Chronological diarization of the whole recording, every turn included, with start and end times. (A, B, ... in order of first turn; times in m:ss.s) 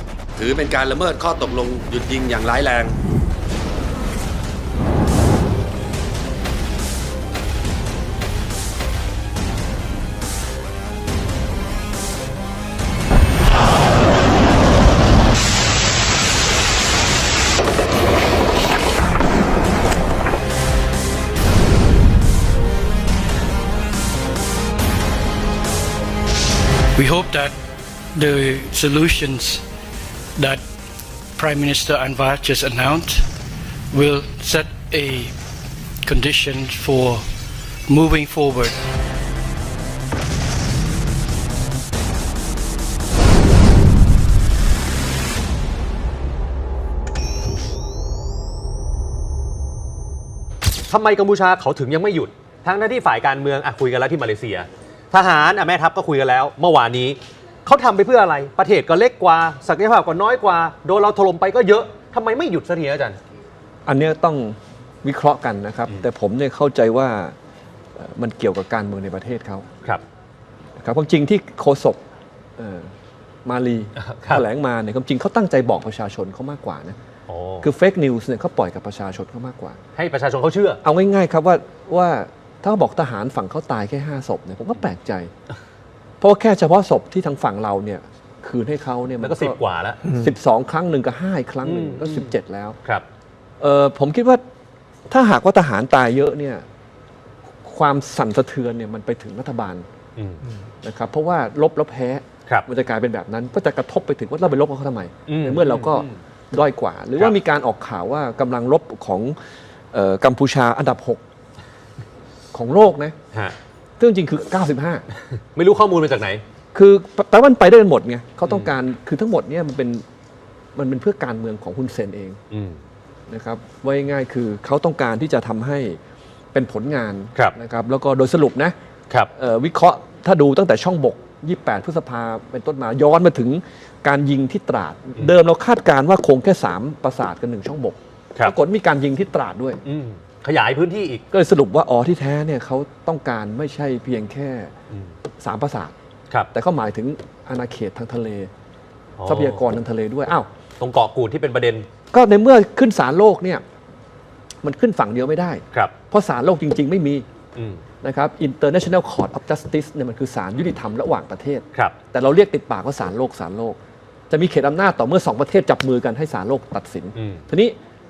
0:00.4-0:03.0 A
0:27.0-0:27.5 B
0:28.2-0:29.6 B
0:31.4-0:33.2 B
0:33.9-0:35.3 B
0:36.1-0:37.2 B
0:37.9-0:38.8 B
0:50.9-1:03.2 C
1:03.8-1:07.3 D
1:08.0-1:09.7 D
1:10.8-1:12.0 D
1:12.6-1:12.9 D
1:13.4-1:17.0 D
1:14.0-1:14.4 C
1:17.3-1:17.7 C
1:17.6-1:19.8 D
1:20.0-1:20.8 C
1:20.8-1:25.3 D
1:26.2-1:32.8 D
1:29.2-1:30.0 C
1:31.6-1:32.3 C
1:33.6-1:34.4 D
1:35.1-1:36.6 D
1:37.6-1:39.8 D
1:40.8-1:49.4 D
1:45.3-1:46.1 C
1:49.9-1:51.2 D
1:52.5-1:53.2 D
1:54.0-1:55.0 D
1:55.6-1:56.4 C
1:56.7-2:00.0 D
2:00.7-2:02.4 D
2:02.5-2:02.8 C
2:03.3-2:06.0 D
2:06.5-2:08.7 D
2:09.3-2:19.8 D
2:19.8-2:21.2 C
2:21.3-2:24.7 D
2:25.4-2:25.9 D
2:26.5-2:28.5 D
2:29.2-2:29.6 C
2:29.2-2:30.5 D
2:30.8-2:31.8 C
2:32.1-2:33.6 D
2:34.6-2:37.2 D
2:37.6-2:37.8 C
2:38.0-2:43.8 D
2:44.3-2:47.8 D
2:47.2-2:47.4 C